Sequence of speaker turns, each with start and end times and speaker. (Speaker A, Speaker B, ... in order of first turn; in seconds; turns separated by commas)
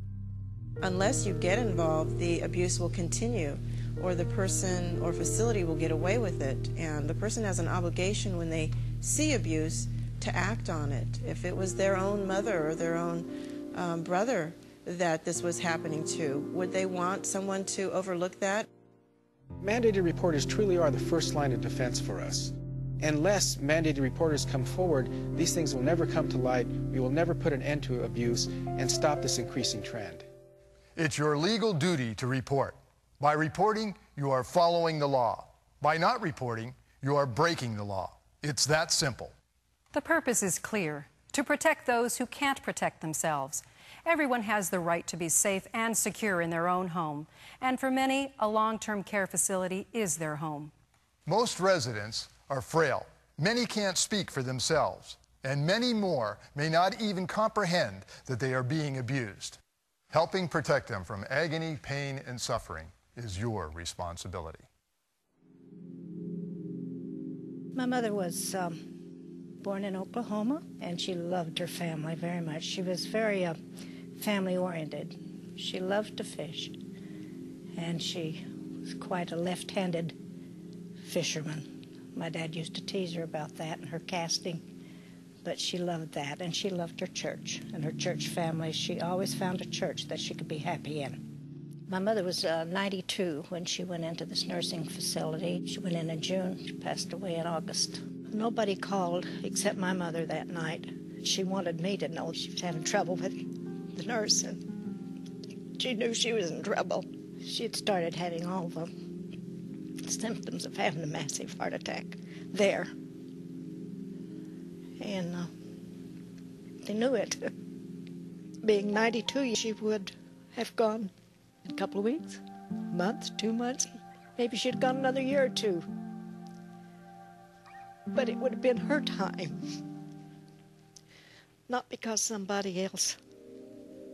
Speaker A: 0.8-18.7, Speaker B: 19.6-30.2, Speaker C: 30.9-39.3, Speaker D: 39.9-50.7, Speaker C: 51.2-59.6, Speaker C: 60.1-64.7, Speaker E: 67.7-68.8, Speaker E: 69.6-73.5, Speaker E: 74.2-76.7, Speaker E: 77.8-80.1, Speaker E: 81.0-84.6, Speaker E: 85.4-91.2, Speaker E: 91.9-103.4, Speaker E: 103.9-104.6, Speaker E: 105.8-108.9, Speaker E: 110.0-112.9, Speaker E: 115.0-115.5, Speaker E: 116.8-117.4, Speaker E: 118.6-121.1, Speaker E: 121.7-122.4, Speaker E: 122.9-125.8, Speaker E: 128.1-129.6, Speaker E: 131.7-133.2